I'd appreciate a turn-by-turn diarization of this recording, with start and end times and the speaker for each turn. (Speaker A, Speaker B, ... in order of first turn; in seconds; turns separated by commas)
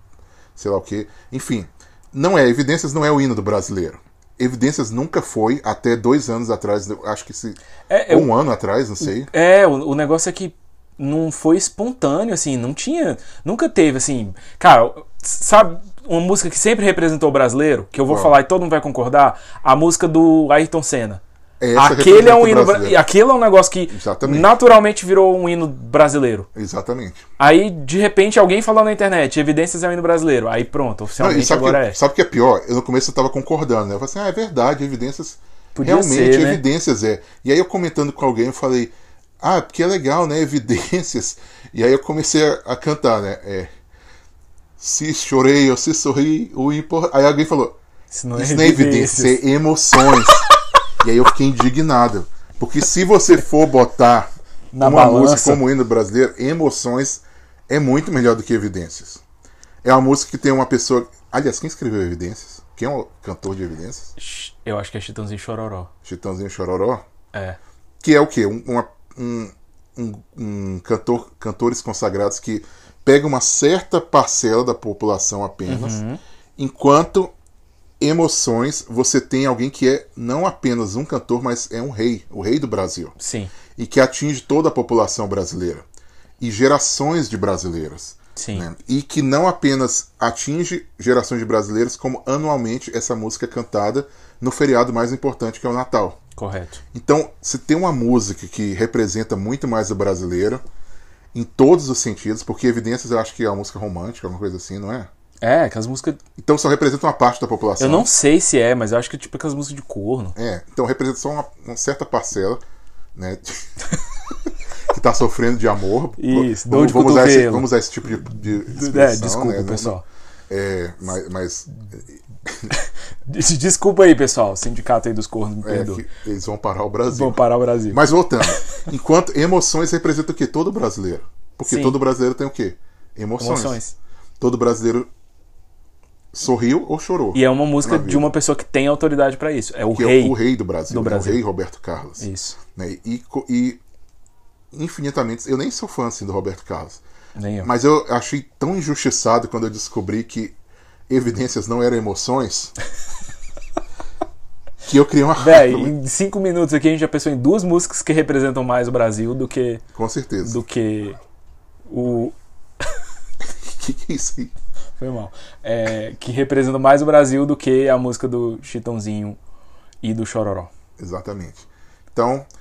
Speaker A: 0.6-9.3, Speaker B: 7.9-8.3, Speaker B: 9.0-21.2, Speaker A: 18.1-18.4, Speaker A: 21.6-23.0, Speaker B: 21.7-26.5, Speaker A: 23.9-24.5, Speaker A: 26.5-27.2, Speaker B: 27.4-32.0, Speaker A: 31.2-43.7, Speaker B: 35.7-36.6, Speaker A: 44.8-47.8, Speaker B: 48.1-49.4, Speaker A: 48.4-50.4, Speaker A: 51.0-59.2, Speaker B: 54.7-55.6, Speaker A: 59.8-64.1, Speaker B: 64.2-65.9, Speaker A: 66.0-67.0, Speaker B: 67.3-67.6, Speaker A: 68.0-76.0, Speaker B: 75.7-76.2, Speaker A: 76.6-77.3, Speaker A: 78.0-83.1, Speaker B: 83.2-83.5, Speaker A: 83.8-85.8, Speaker A: 86.4-96.2, Speaker B: 88.3-88.7, Speaker B: 96.3-96.8, Speaker A: 96.9-100.6, Speaker A: 101.3-105.1, Speaker B: 105.4-106.2, Speaker A: 106.4-108.1, Speaker B: 107.8-110.3, Speaker A: 110.3-112.6, Speaker A: 113.1-113.7, Speaker A: 114.9-119.9, Speaker B: 116.2-117.7, Speaker B: 118.7-120.0, Speaker A: 120.5-122.7, Speaker B: 122.7-126.0, Speaker A: 125.6-127.4, Speaker B: 127.1-128.0, Speaker A: 127.9-133.8, Speaker B: 131.6-131.9, Speaker B: 133.4-133.9, Speaker A: 134.4-135.1, Speaker A: 136.3-138.3, Speaker B: 137.3-140.4, Speaker A: 139.9-143.8, Speaker B: 140.9-141.4, Speaker B: 142.2-142.6, Speaker A: 144.7-147.0, Speaker B: 147.4-147.7, Speaker A: 147.6-150.6, Speaker A: 151.1-152.7, Speaker A: 154.8-155.9, Speaker B: 155.4-159.8, Speaker A: 159.9-160.6, Speaker B: 160.4-161.2, Speaker B: 161.9-162.3, Speaker A: 163.6-164.5, Speaker B: 165.0-169.4, Speaker B: 170.0-170.7, Speaker A: 171.0-172.5